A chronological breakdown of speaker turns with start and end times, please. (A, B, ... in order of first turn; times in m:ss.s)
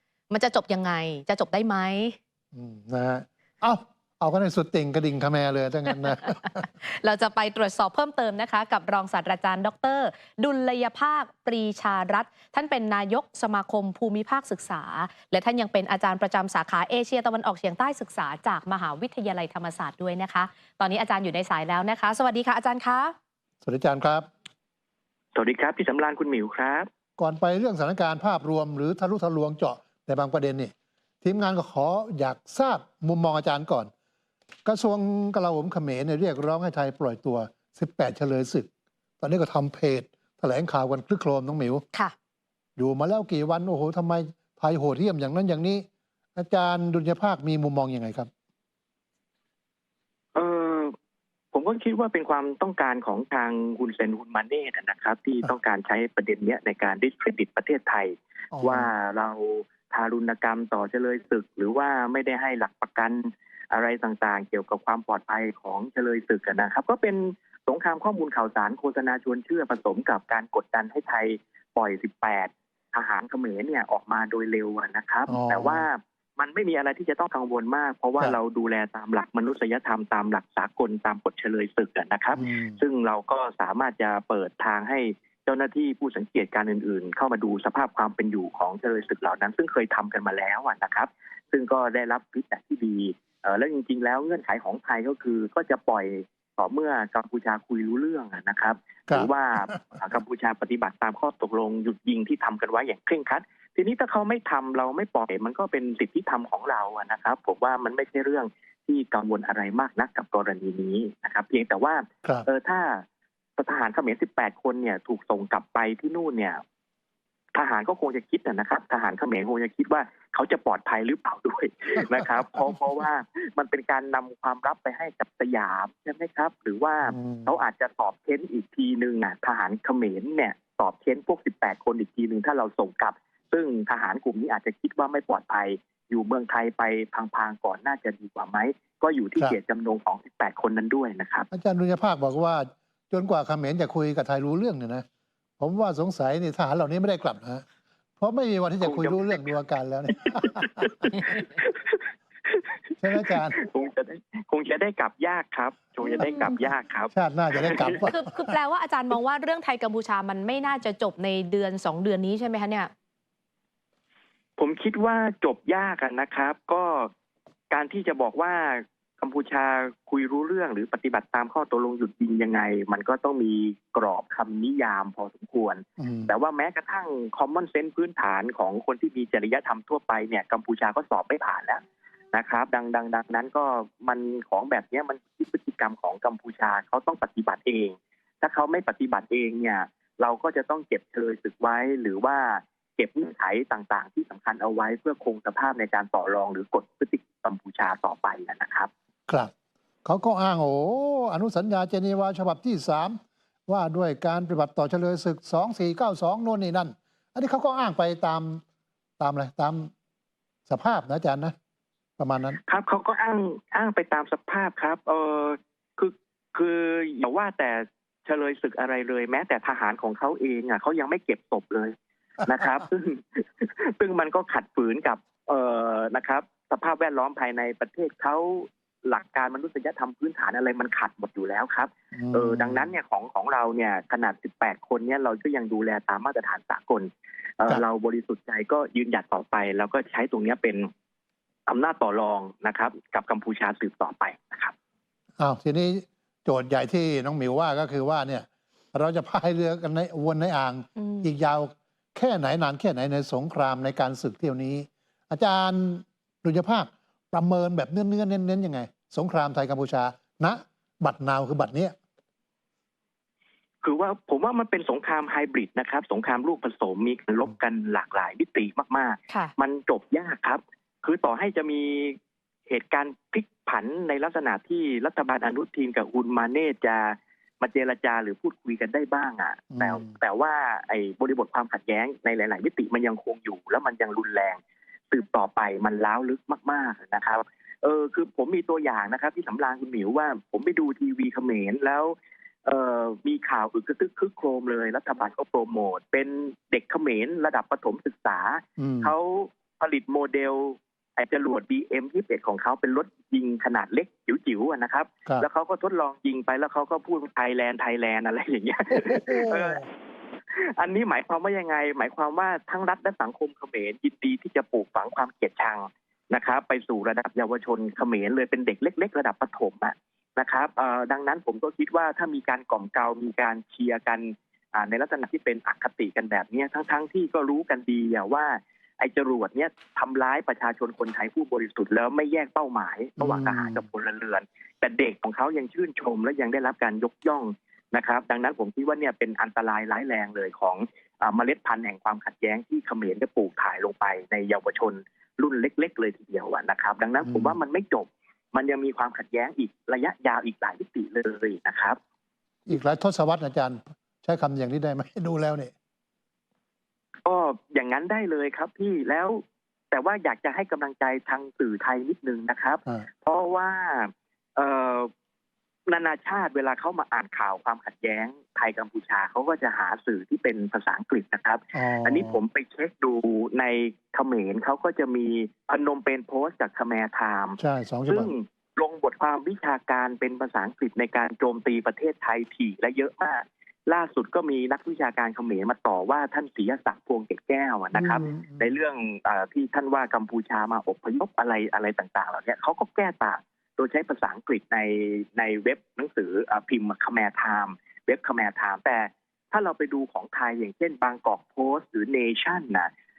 0:00.3-0:02.2 A
0:02.5-0:06.6 B
0:06.6-0:23.1 A
0:23.6-0:24.2 B
0:25.3-0:26.9 C
0:27.2-0:33.9 B
0:34.6-0:38.7 B
0:39.2-0:41.8 B
0:42.8-0:48.3 B
0:50.3-0:50.9 C
0:51.5-1:53.0 C
0:58.5-0:58.9 B
1:15.3-1:15.8 B
1:22.4-1:22.8 B
1:39.1-1:40.0 B
1:53.6-1:56.6 C
1:57.5-2:21.5 C
2:07.0-2:07.5 B
2:21.5-2:25.0 B
2:25.6-2:27.7 B
2:28.2-2:30.9 B
2:28.8-2:29.5 C
2:30.3-2:38.0 C
2:33.0-2:33.6 B
2:37.1-2:38.3 B
2:38.0-2:42.9 A
2:44.6-2:47.1 C
2:47.7-3:01.8 C
2:56.0-2:56.3 B
3:02.3-3:18.9 C
3:20.0-3:28.6 B
3:29.2-3:29.9 B
3:30.7-3:31.5 B
3:32.2-3:32.6 B
3:32.7-4:00.9 C
3:52.1-3:52.9 B
4:01.7-4:04.7 C
4:05.4-4:21.9 B
4:11.0-4:11.3 A
4:23.8-4:32.2 C
4:32.7-4:44.6 C
4:39.7-4:40.1 B
4:45.1-5:09.9 C
4:58.8-4:59.1 B
5:09.0-5:09.8 B
5:10.5-5:52.0 C
5:33.2-5:33.8 B
5:47.2-5:47.6 B
5:52.6-5:55.7 B
5:57.2-6:05.1 C
6:05.9-6:42.9 C
6:11.7-6:12.4 B
6:17.6-6:18.3 B
6:27.9-6:28.7 B